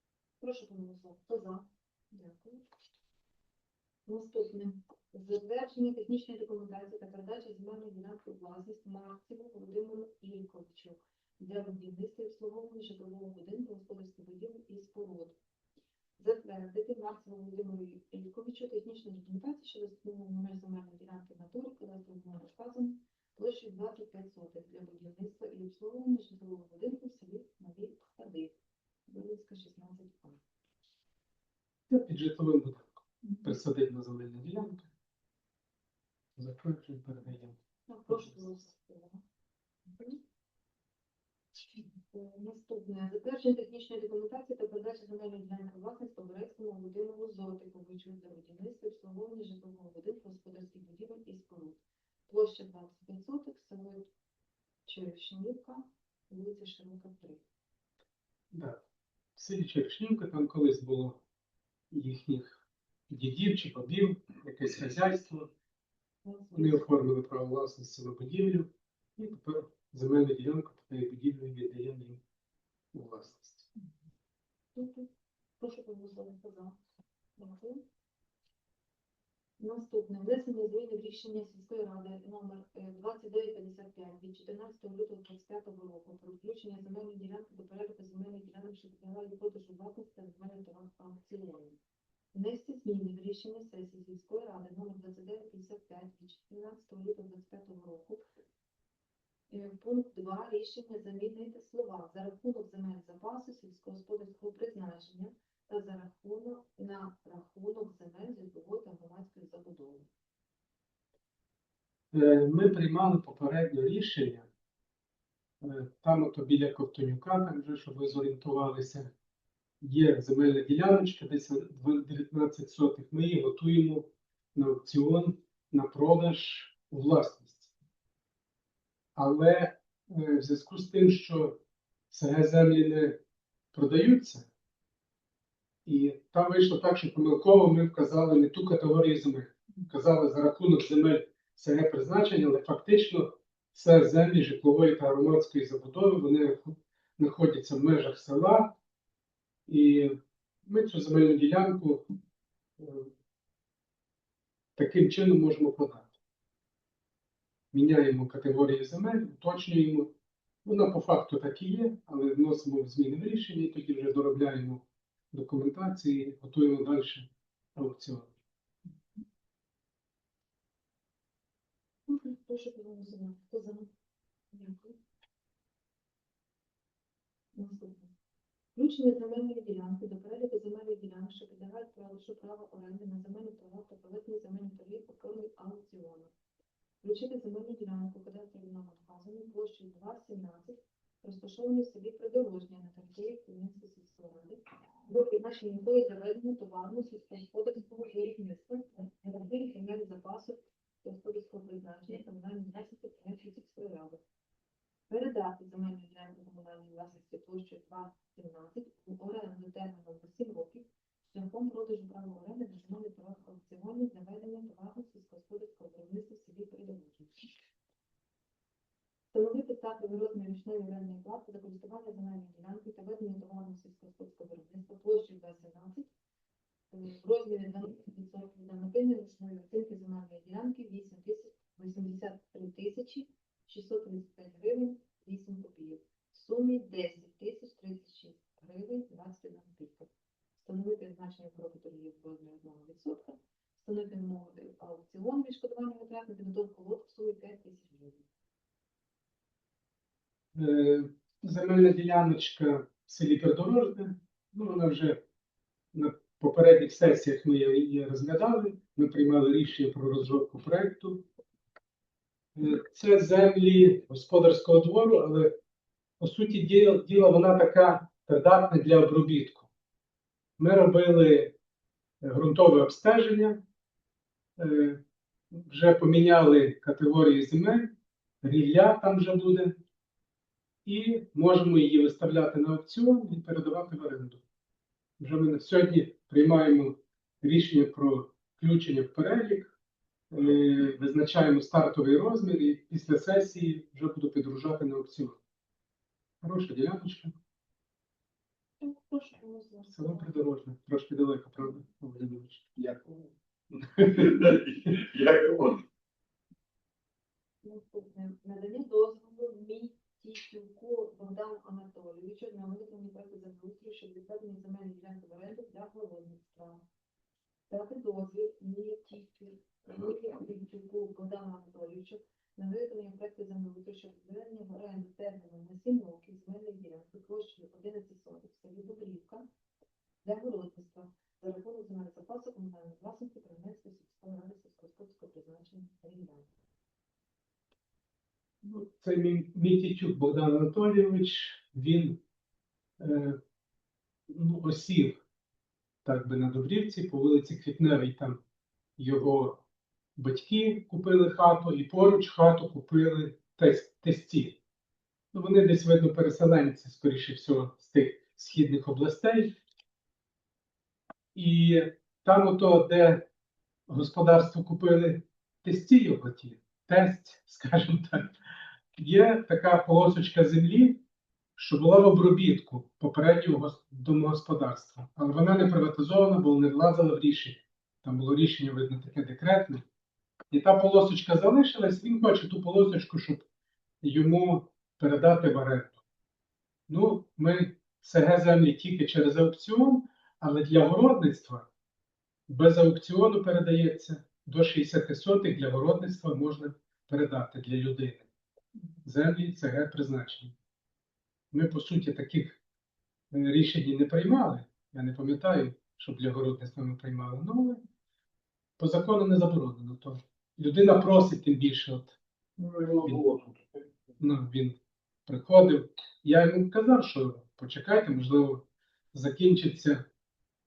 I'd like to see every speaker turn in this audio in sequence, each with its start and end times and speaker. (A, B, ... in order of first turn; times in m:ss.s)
0:00.4-0:02.6 A
0:04.1-0:15.4 A
0:16.2-0:28.5 A
0:29.1-0:30.4 A
0:31.9-0:34.9 B
0:36.4-0:37.6 B
0:37.9-0:39.2 A
0:38.1-0:38.4 B
0:39.9-0:40.2 A
0:42.1-0:54.1 A
0:54.9-0:57.4 A
0:58.5-0:58.8 B
0:59.4-1:01.2 B
1:01.9-1:05.5 B
1:06.2-1:06.9 A
1:06.5-1:12.2 B
1:12.9-1:13.7 B
1:14.8-1:16.8 A
1:17.4-1:17.8 A
1:19.6-1:31.8 A
1:32.3-1:38.2 A
1:39.5-1:50.1 A
1:52.1-1:54.5 B
1:55.6-1:59.1 B
1:59.8-2:07.7 B
2:09.2-2:11.6 B
2:12.1-2:13.2 B
2:13.7-2:14.5 B
2:15.8-2:28.8 B
2:29.7-2:32.1 B
2:32.8-2:33.1 B
2:34.8-2:36.1 B
2:37.7-2:40.1 B
2:40.6-2:48.3 B
2:52.1-2:53.9 A
2:54.5-2:55.0 A
2:57.6-2:58.1 A
2:58.8-3:06.3 A
3:07.0-3:24.2 A
3:25.1-3:37.5 A
3:39.3-3:46.1 A
3:46.9-4:08.2 A
4:10.5-4:15.2 B
4:15.9-4:21.2 B
4:22.6-4:25.6 B
4:26.2-4:29.7 B
4:30.6-4:31.6 B
4:32.2-4:33.6 B
4:34.6-4:39.8 B
4:40.8-4:44.4 B
4:45.2-4:49.7 B
4:50.3-4:55.4 B
4:56.4-4:57.4 B
4:58.8-5:00.3 A
4:59.9-5:02.9 B
5:03.8-5:04.4 B
5:04.0-5:05.8 C
5:07.6-5:16.8 A
5:17.7-5:29.5 A
5:30.2-5:36.5 A
5:38.6-5:42.2 B
5:43.0-5:43.4 B
5:44.3-5:45.2 B
5:46.0-5:48.4 B
5:49.0-5:49.6 B
5:50.2-5:54.6 B
5:55.3-5:59.6 B
6:01.4-6:03.3 B
6:03.9-6:08.3 B
6:09.0-6:11.0 B
6:11.6-6:19.8 B
6:20.5-6:23.4 B
6:24.0-6:26.0 B
6:26.9-6:31.7 B
6:32.5-6:38.3 B
6:39.0-6:40.5 B
6:41.5-6:42.6 B
6:43.3-6:47.8 B
6:48.8-6:52.2 B
6:52.6-6:54.1 C
6:54.2-7:00.1 B